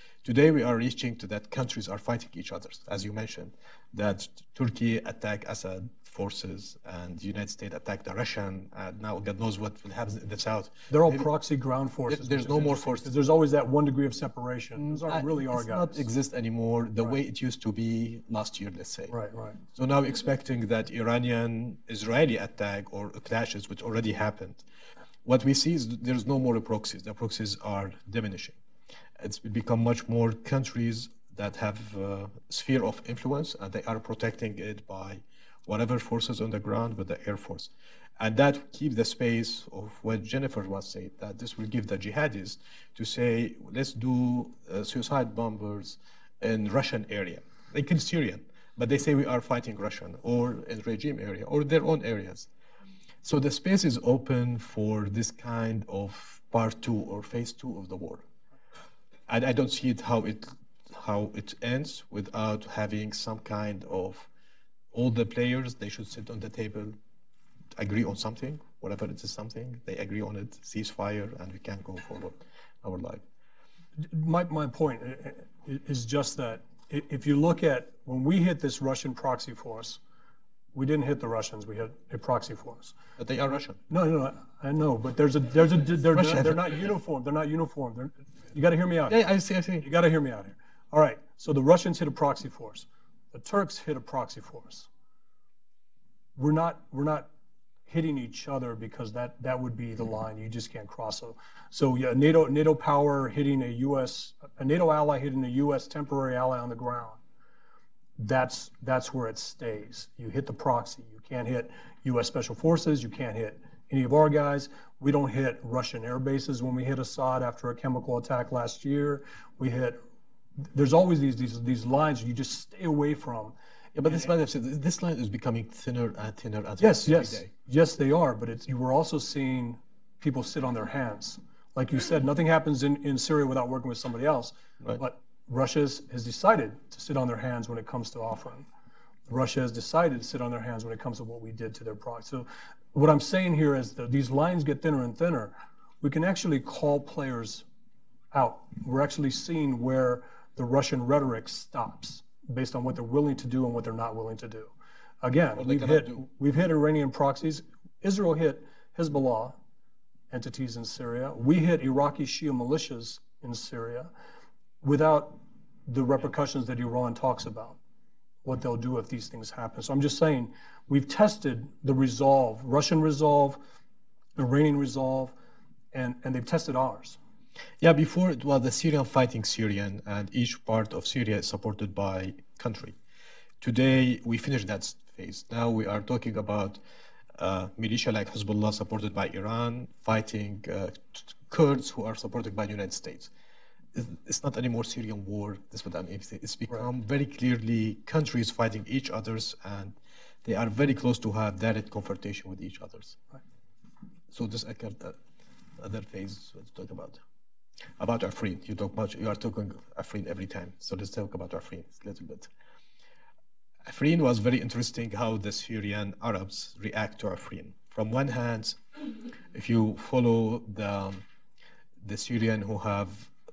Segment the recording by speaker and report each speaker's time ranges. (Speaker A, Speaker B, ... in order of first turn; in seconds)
Speaker A: 0.2-11.3, 12.1-13.1, 14.8-19.1, 19.7-24.6, 25.2-28.6, 29.2-52.5, 53.2-58.2, 59.3-64.3, 64.9-67.0, 67.8-73.2, 83.2-83.8, 86.1-86.6, 89.1-89.9, 123.9-127.5, 155.5-156.2, 177.8-183.0, 183.6-186.8, 187.3-193.3, 193.9-203.2, 204.3-205.2, 205.8-207.2, 208.0-212.5, 213.8-218.8, 219.5-221.2, 222.0-223.3
Speaker B: 10.9-16.0, 19.1-19.6, 74.0-80.0, 80.7-83.0, 83.9-89.2, 89.8-94.9, 96.3-97.3, 97.9-107.2, 108.2-120.0, 120.7-123.5, 126.8-138.7, 139.3-147.6, 148.3-159.6, 160.3-164.1, 164.8-167.8, 168.4-173.6, 174.3-175.3, 175.9-177.2